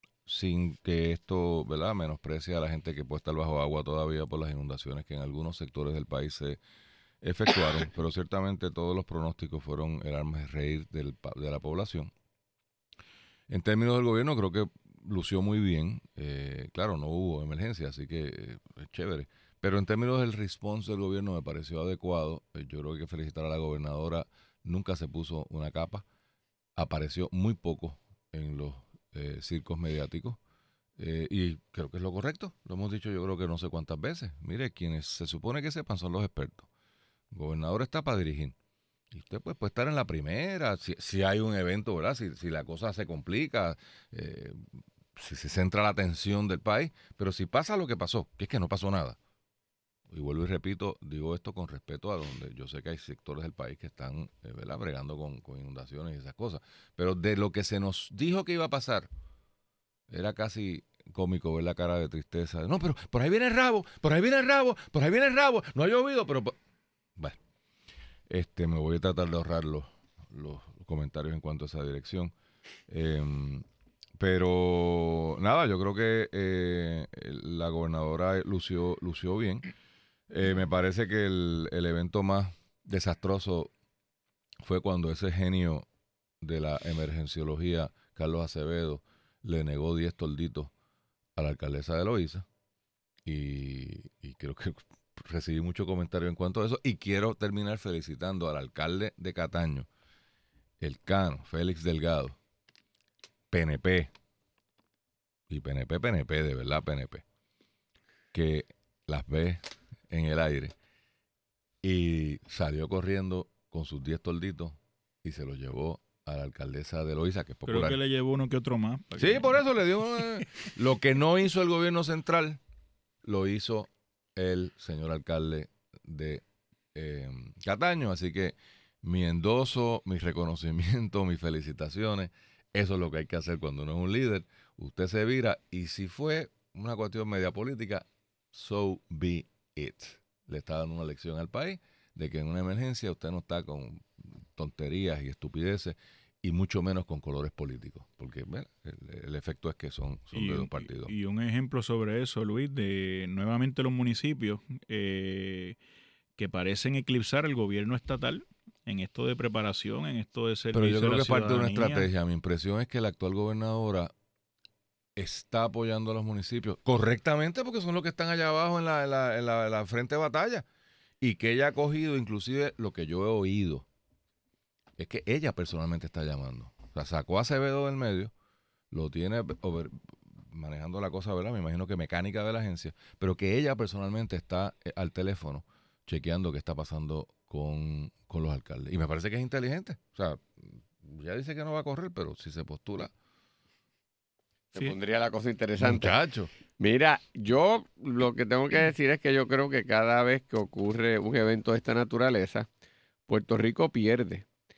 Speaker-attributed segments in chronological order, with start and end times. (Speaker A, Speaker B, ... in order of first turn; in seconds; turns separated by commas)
Speaker A: 0.3-6.6, Speaker A: 7.2-12.1, Speaker A: 13.5-26.1, Speaker A: 26.8-30.4, Speaker A: 31.0-36.7, Speaker A: 37.3-38.5, Speaker A: 39.1-44.6, Speaker A: 45.2-49.2, Speaker A: 50.1-59.1, Speaker A: 60.1-66.6, Speaker A: 68.3-72.3, Speaker A: 72.9-73.7, Speaker A: 74.2-79.7, Speaker A: 80.3-83.7, Speaker A: 84.6-85.9, Speaker A: 86.4-90.7, Speaker A: 91.4-92.5, Speaker A: 93.2-99.9, Speaker A: 100.8-102.4, Speaker A: 103.5-104.1, Speaker A: 105.5-107.2, Speaker A: 108.3-110.7, Speaker A: 111.8-118.0, Speaker B: 117.7-119.6, Speaker A: 119.2-122.6, Speaker A: 123.2-151.1, Speaker B: 150.3-155.8, Speaker B: 156.4-162.1, Speaker A: 160.7-164.1, Speaker A: 165.2-170.7, Speaker A: 171.2-173.9, Speaker A: 175.0-178.3, Speaker A: 178.9-179.9, Speaker A: 180.5-193.1, Speaker C: 194.7-196.1, Speaker A: 195.8-196.5, Speaker C: 196.8-202.7, Speaker C: 203.3-204.4